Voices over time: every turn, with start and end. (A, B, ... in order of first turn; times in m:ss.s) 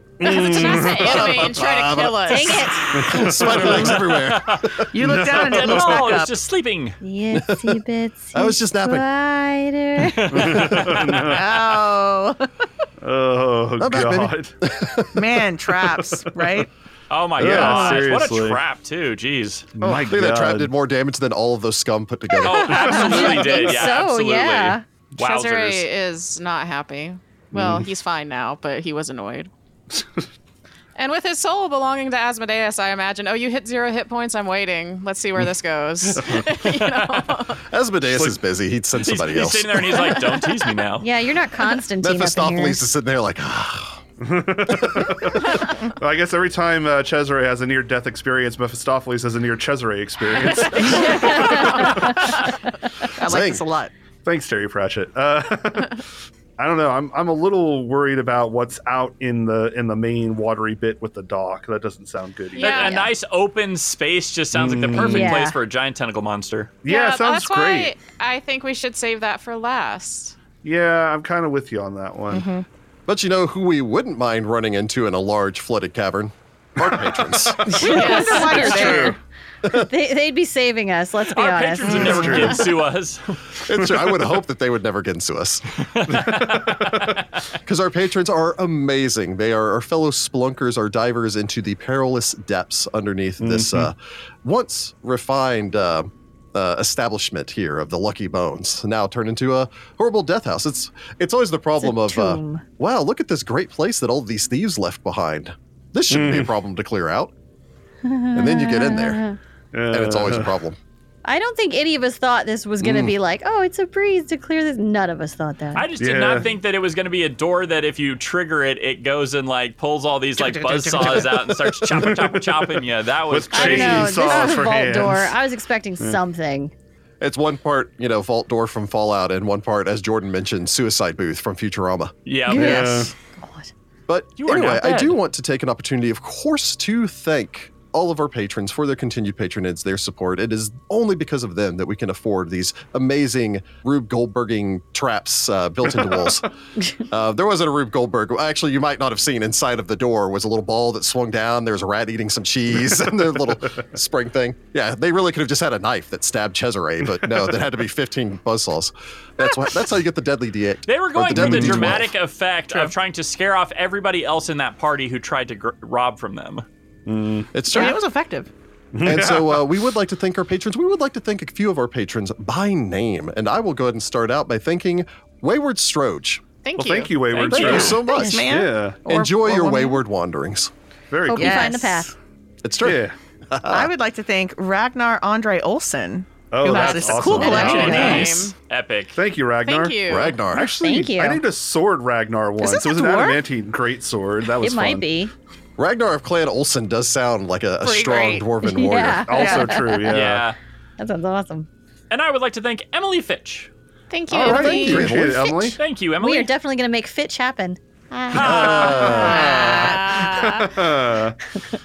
0:00.2-0:01.6 A
0:00.2-0:02.6 B
0:00.7-0:05.2 C
0:02.3-0:03.2 D
0:02.9-0:04.0 A
0:03.6-0:03.9 E
0:03.6-0:07.0 F
0:04.9-0:06.4 E
0:05.0-0:06.2 A
0:07.0-0:10.9 D
0:07.3-0:07.8 C
0:08.3-0:09.1 C
0:10.0-0:11.7 F
0:10.3-0:11.4 A
0:11.2-0:12.5 E
0:13.0-0:14.5 A
0:13.8-0:15.4 C
0:15.1-0:16.7 E
0:17.1-0:19.7 F
0:17.4-0:18.6 A
0:17.5-0:18.1 D
0:19.8-0:20.7 A
0:19.8-0:23.3 C
0:22.4-0:25.9 F
0:22.7-0:24.8 D
0:22.8-0:24.0 A
0:25.2-0:29.5 B
0:27.5-0:27.9 A
0:31.0-0:37.6 B
0:36.2-0:36.4 A
0:37.6-0:40.0 C
0:38.1-0:38.4 F
0:39.0-0:41.1 F
0:41.0-0:42.8 D
0:42.0-0:44.0 C
0:44.2-0:52.3 A
0:44.7-0:45.5 C
0:50.4-0:52.5 B
0:50.9-0:52.2 D
0:53.2-0:53.9 E
0:53.2-0:53.6 C
0:54.2-0:56.0 A
0:56.6-1:03.0 A
1:02.6-1:03.1 B
1:02.6-1:06.8 F
1:04.5-1:05.4 A
1:04.9-1:05.6 D
1:06.8-1:07.9 A
1:06.9-1:10.4 B
1:10.6-1:12.5 A
1:12.3-1:12.6 E
1:13.1-1:17.6 C
1:17.7-1:22.6 D
1:17.8-1:19.2 E
1:17.8-1:19.0 B
1:21.3-1:23.7 F
1:21.8-1:22.6 A
1:23.6-1:25.9 C
1:25.9-1:27.2 F
1:26.1-1:27.2 A
1:27.6-1:47.3 C
1:33.4-1:33.9 A
1:41.8-1:42.6 D
1:46.1-1:46.5 A
1:48.0-1:49.4 D
1:48.3-1:49.2 C
1:49.7-1:50.5 A
1:49.9-1:50.8 C
1:51.2-1:55.9 D
1:52.8-1:53.1 C
1:55.8-2:04.7 F
1:56.0-1:56.5 A
2:00.4-2:01.5 E
2:01.8-2:05.4 A
2:03.5-2:06.7 D
2:07.2-2:12.2 C
2:12.3-2:13.1 F
2:12.5-2:13.7 D
2:12.5-2:13.1 A
2:12.6-2:13.1 E
2:14.1-2:42.1 C
2:14.4-2:15.2 F
2:40.9-2:46.6 F
2:41.4-2:42.0 A
2:47.1-2:47.5 A
2:47.5-2:48.0 C
2:47.7-2:48.5 E
2:48.9-2:49.8 A
2:49.0-2:56.4 C
2:56.6-2:57.9 B
2:56.8-2:59.0 A
2:57.3-2:57.8 F
2:57.5-2:58.5 C
2:57.9-3:00.0 E
2:58.1-2:58.4 D
2:59.1-3:00.7 C
3:01.1-3:01.8 A
3:01.3-3:02.1 D
3:01.3-3:02.1 E
3:02.6-3:03.9 C
3:02.8-3:03.2 A
3:03.7-3:08.5 E
3:06.5-3:08.3 A
3:06.8-3:08.6 B
3:07.4-3:09.2 F
3:09.2-3:15.1 A
3:09.6-3:10.4 B
3:10.1-3:10.7 C
3:10.6-3:11.4 D
3:12.6-3:13.4 E
3:14.6-3:15.3 D
3:15.8-3:19.4 C
3:17.8-3:18.5 E
3:18.6-3:20.2 D
3:19.2-3:20.5 A
3:19.4-3:19.8 E
3:20.1-3:20.6 F
3:21.0-3:21.7 D
3:22.1-3:23.7 F
3:24.1-3:25.4 B
3:24.3-3:25.8 A
3:24.3-3:25.6 C
3:25.8-3:26.5 F
3:26.2-3:27.8 D
3:28.3-3:30.0 F
3:28.4-3:31.4 A
3:28.4-3:29.5 C
3:28.6-3:30.9 B